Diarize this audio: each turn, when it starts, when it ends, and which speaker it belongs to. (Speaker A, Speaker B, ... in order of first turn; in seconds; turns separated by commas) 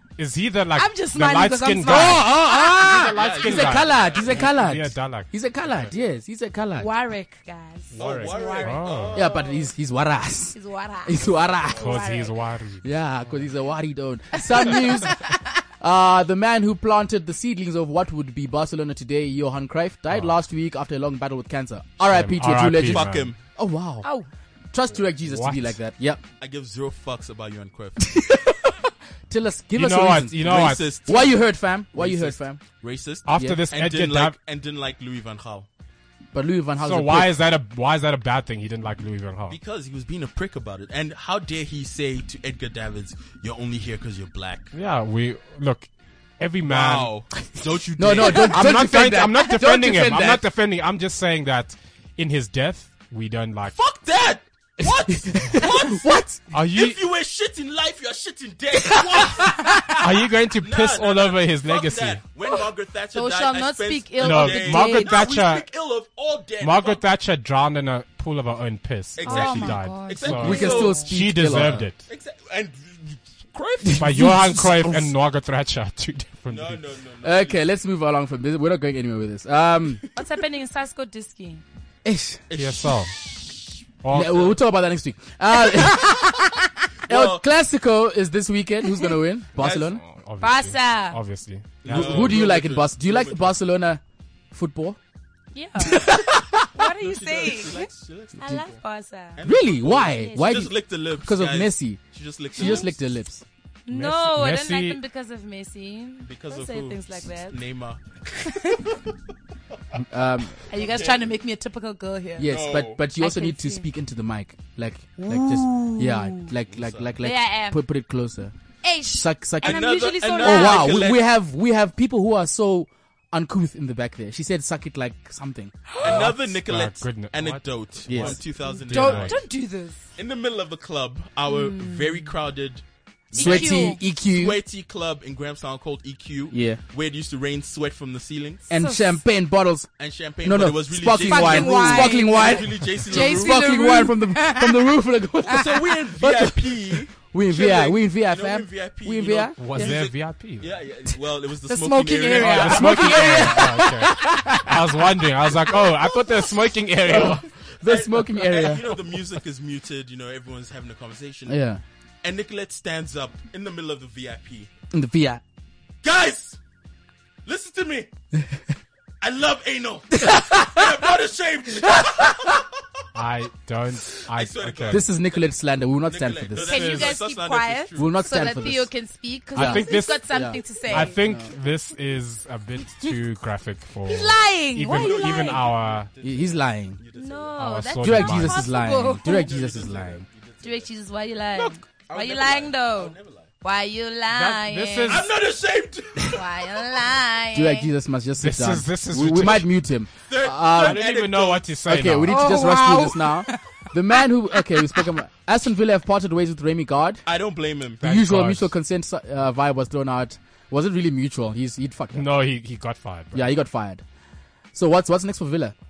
Speaker A: 0.2-5.9, Speaker B: 0.7-3.3, Speaker C: 1.8-6.9, Speaker D: 3.0-4.5, Speaker B: 6.8-9.3, Speaker A: 7.9-9.2, Speaker D: 7.9-9.7, Speaker C: 9.1-12.0, Speaker B: 10.5-12.4, Speaker D: 11.2-12.0, Speaker A: 11.8-13.4, Speaker C: 12.8-15.3, Speaker B: 14.3-15.6, Speaker C: 15.8-24.1, Speaker A: 22.0-23.3, Speaker D: 22.8-23.4, Speaker B: 24.0-24.3, Speaker C: 24.7-26.2, Speaker A: 25.2-25.8, Speaker D: 26.4-28.2, Speaker C: 28.0-28.8, Speaker C: 29.3-32.6, Speaker A: 29.8-30.9, Speaker D: 30.4-31.4, Speaker D: 31.9-35.7, Speaker A: 33.3-34.4, Speaker C: 33.4-33.6, Speaker C: 36.3-37.3, Speaker A: 36.8-39.6, Speaker D: 39.5-44.7, Speaker A: 44.7-47.1, Speaker D: 46.6-48.8, Speaker C: 48.0-50.4, Speaker A: 48.2-53.8, Speaker D: 53.7-60.0, Speaker C: 54.8-56.4, Speaker A: 56.5-57.0, Speaker B: 59.2-60.0, Speaker A: 60.0-62.2, Speaker D: 60.6-67.0, Speaker B: 62.5-65.2, Speaker A: 64.2-65.7, Speaker A: 66.6-72.0, Speaker D: 69.2-74.0, Speaker B: 69.2-71.1, Speaker C: 70.3-71.9, Speaker C: 73.8-75.1, Speaker A: 74.0-76.8, Speaker D: 76.5-77.6, Speaker C: 77.2-80.0, Speaker B: 80.2-81.6, Speaker C: 82.0-82.4, Speaker D: 82.5-83.3, Speaker A: 82.5-83.1, Speaker A: 84.0-84.6, Speaker C: 84.1-90.0, Speaker D: 87.1-87.5, Speaker D: 89.6-90.0, Speaker A: 90.0-92.5, Speaker B: 90.4-91.2, Speaker D: 91.8-93.5, Speaker C: 91.9-94.0, Speaker C: 94.5-95.0, Speaker B: 95.5-99.5, Speaker C: 95.8-96.7, Speaker D: 96.8-98.8, Speaker D: 99.4-103.0, Speaker C: 99.4-102.0, Speaker B: 100.0-100.6, Speaker C: 102.5-103.4, Speaker B: 102.6-102.9, Speaker B: 103.9-107.6, Speaker A: 103.9-105.0, Speaker D: 106.2-109.2, Speaker B: 108.4-108.9, Speaker C: 110.1-110.6, Speaker B: 110.7-112.6, Speaker D: 110.7-111.3, Speaker C: 112.4-118.5, Speaker D: 112.5-113.0, Speaker B: 113.1-113.9, Speaker B: 115.2-116.5, Speaker D: 116.7-117.1, Speaker B: 117.2-117.8, Speaker B: 118.8-121.1, Speaker C: 119.1-125.8, Speaker D: 119.6-121.3, Speaker B: 125.9-126.3, Speaker A: 126.0-129.4, Speaker D: 126.0-129.4, Speaker C: 128.1-128.4, Speaker B: 128.6-130.1, Speaker D: 130.2-138.7, Speaker B: 131.5-132.3, Speaker B: 133.3-134.0, Speaker C: 133.3-134.6, Speaker C: 136.5-136.8, Speaker C: 138.7-139.9, Speaker B: 138.7-139.2, Speaker D: 140.0-143.7, Speaker C: 140.4-149.8, Speaker B: 141.2-145.0, Speaker D: 145.5-153.3, Speaker A: 149.6-150.7, Speaker B: 151.7-154.6, Speaker A: 152.4-157.5, Speaker C: 152.4-154.8, Speaker C: 157.1-159.0, Speaker D: 157.1-161.6, Speaker C: 161.5-161.8, Speaker D: 162.2-164.7, Speaker C: 164.9-165.4, Speaker D: 166.0-166.6, Speaker D: 167.4-168.1, Speaker D: 169.2-172.7, Speaker C: 170.1-171.0, Speaker C: 171.9-172.6, Speaker A: 173.2-175.0, Speaker D: 174.2-175.4, Speaker C: 174.9-176.8, Speaker D: 176.1-178.2, Speaker B: 176.6-181.2, Speaker A: 176.7-177.2, Speaker C: 178.0-178.9, Speaker C: 179.6-181.5, Speaker A: 179.6-186.1, Speaker B: 184.0-185.6, Speaker D: 184.9-187.6, Speaker C: 186.2-187.0, Speaker B: 187.1-189.5, Speaker A: 187.6-188.7, Speaker C: 188.0-190.2, Speaker D: 189.2-190.9, Speaker B: 190.6-195.3, Speaker D: 191.5-193.5, Speaker A: 194.3-195.3, Speaker D: 195.1-196.9, Speaker B: 196.3-197.9, Speaker C: 197.5-201.0, Speaker A: 198.4-199.7, Speaker D: 200.3-201.7, Speaker A: 200.7-202.6, Speaker C: 201.9-207.2, Speaker B: 202.3-205.1, Speaker D: 207.3-208.0, Speaker A: 208.0-208.7, Speaker C: 208.0-212.3, Speaker A: 212.2-213.4, Speaker C: 213.3-214.0, Speaker C: 214.7-215.8